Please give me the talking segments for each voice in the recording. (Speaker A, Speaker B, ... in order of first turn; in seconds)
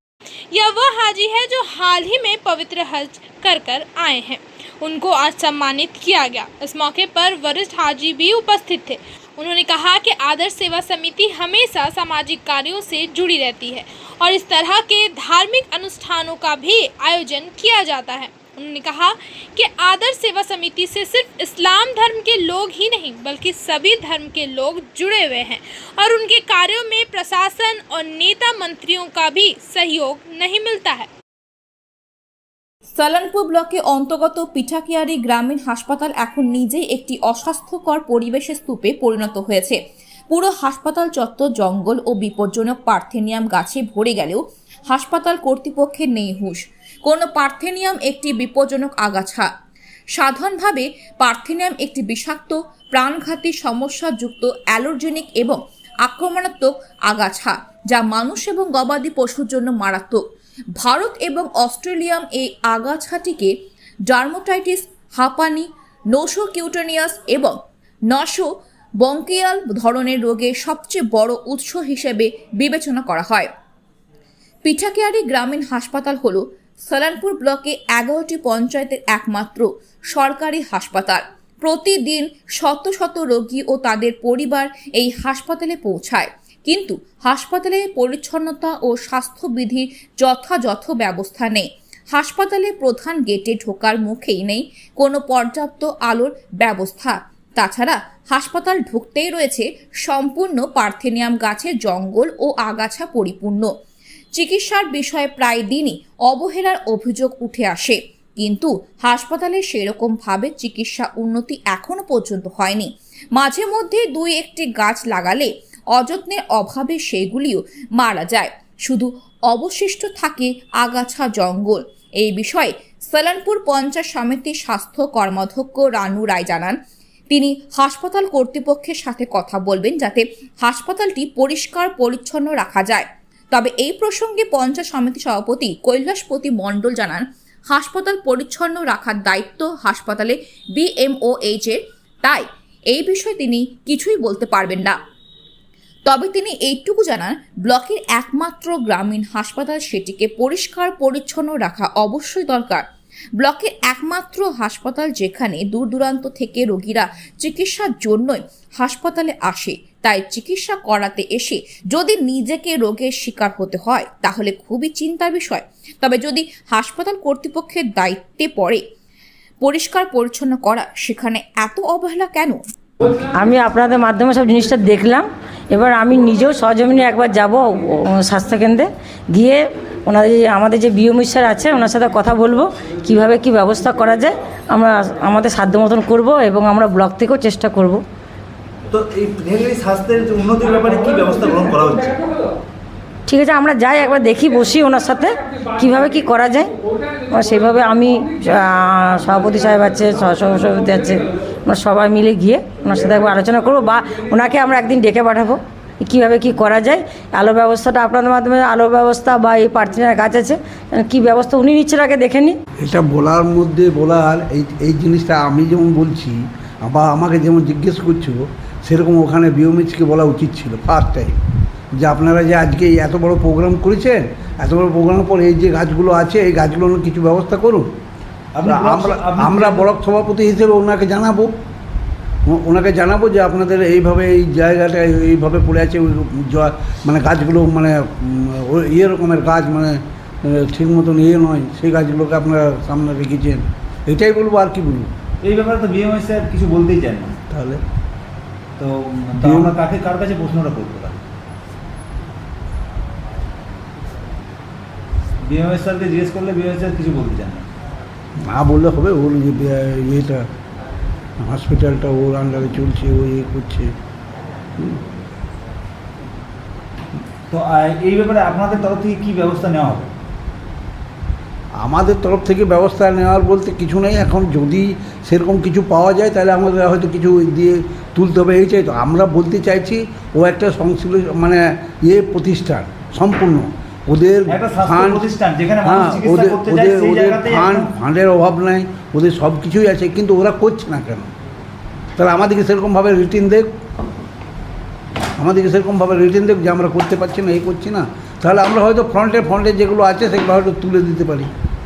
Speaker A: 0.5-31.1
Speaker B: 33.0-39.8, 40.3-49.5, 50.2-60.2, 60.8-63.5, 64.1-67.6, 68.1-68.5, 69.0-73.5, 74.7-103.7, 104.4-126.8, 127.3-145.0, 146.1-152.8, 153.4-168.8, 169.6-172.6
Speaker C: 173.2-188.0, 193.3-196.7, 197.3-212.6
Speaker D: 188.9-192.2, 228.6-229.9, 245.4-247.4, 248.8-251.2, 255.4-257.7, 267.5-270.1, 284.5-287.9
Speaker E: 212.8-221.3, 222.0-227.9, 228.7-231.5, 232.5-245.1, 247.5-247.8, 249.4-249.8, 258.4-260.5, 261.4-263.9, 271.8-285.2, 285.8-291.3, 292.2-293.7, 295.4-301.5